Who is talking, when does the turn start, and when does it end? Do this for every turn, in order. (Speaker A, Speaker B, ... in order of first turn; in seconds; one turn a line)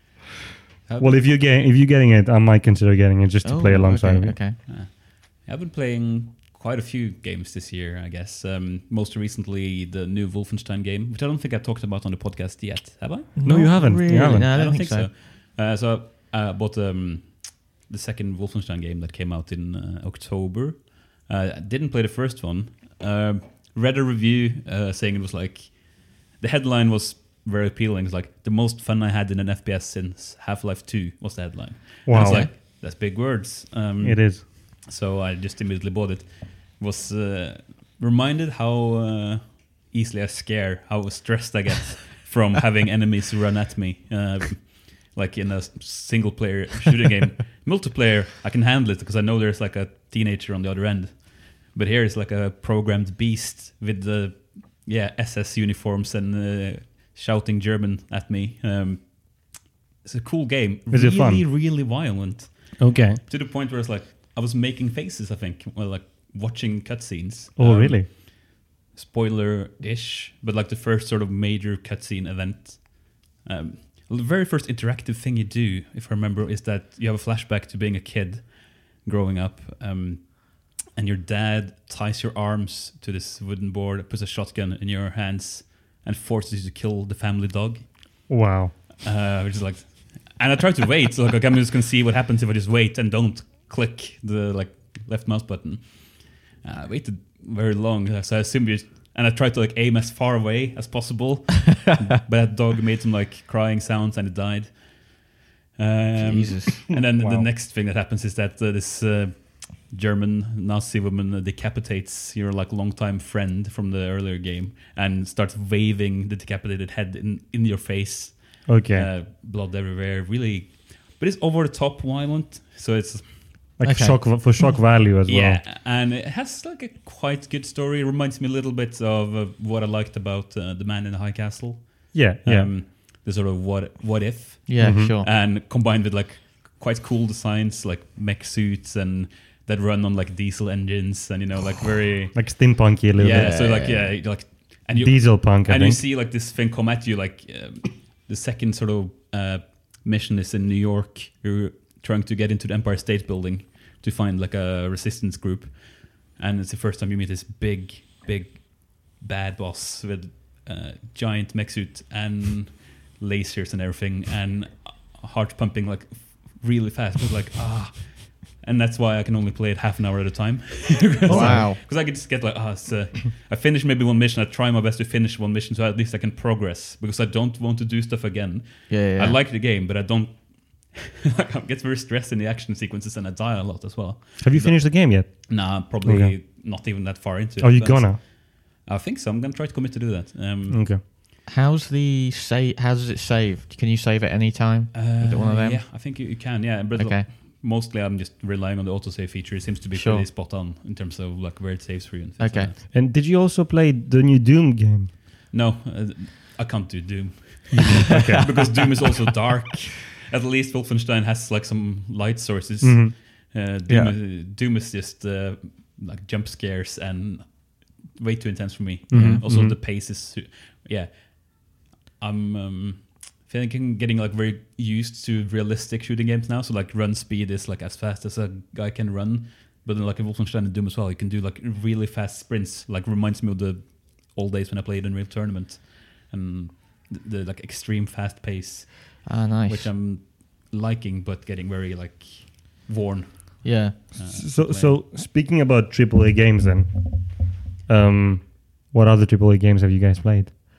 Speaker A: 0.9-1.1
Speaker B: 1.0-4.4
Speaker C: 3.4-4.6
Speaker A: 4.7-13.3
Speaker C: 13.4-15.1
Speaker B: 13.4-14.5
Speaker A: 14.5-87.9
Speaker B: 32.1-32.5
Speaker C: 32.2-32.5
Speaker B: 34.0-34.5
Speaker B: 60.9-61.4
Speaker B: 62.8-63.2
Speaker B: 67.6-68.1
Speaker B: 88.3-88.8
Speaker A: 89.0-105.3
Speaker A: 105.8-123.3
Speaker C: 106.2-107.4
Speaker B: 118.7-119.1
Speaker B: 123.8-125.6
Speaker C: 123.8-124.6
Speaker A: 125.2-190.9
Speaker B: 132.1-132.7
Speaker C: 134.7-135.3
Speaker B: 134.8-135.1
Speaker B: 142.3-143.6
Speaker C: 143.3-144.1
Speaker B: 145.0-146.0
Speaker B: 171.3-171.7
Speaker C: 171.3-171.8
Speaker C: 178.9-179.4
Speaker B: 184.4-186.3
Speaker B: 187.6-188.2
Speaker B: 190.7-191.0
Speaker C: 191.5-196.4
Speaker A: 194.9-202.8
Speaker C: 196.9-197.3
Speaker C: 199.9-200.3
Speaker C: 202.4-202.7
Speaker B: 202.9-205.1
Speaker A: 205.5-245.0
Speaker B: 207.7-208.5
Speaker C: 208.3-208.8
Speaker B: 212.8-213.1
Speaker C: 213.9-214.1
Speaker B: 219.1-219.8
Speaker C: 239.2-239.9
Speaker C: 243.6-244.0
Speaker B: 244.2-250.6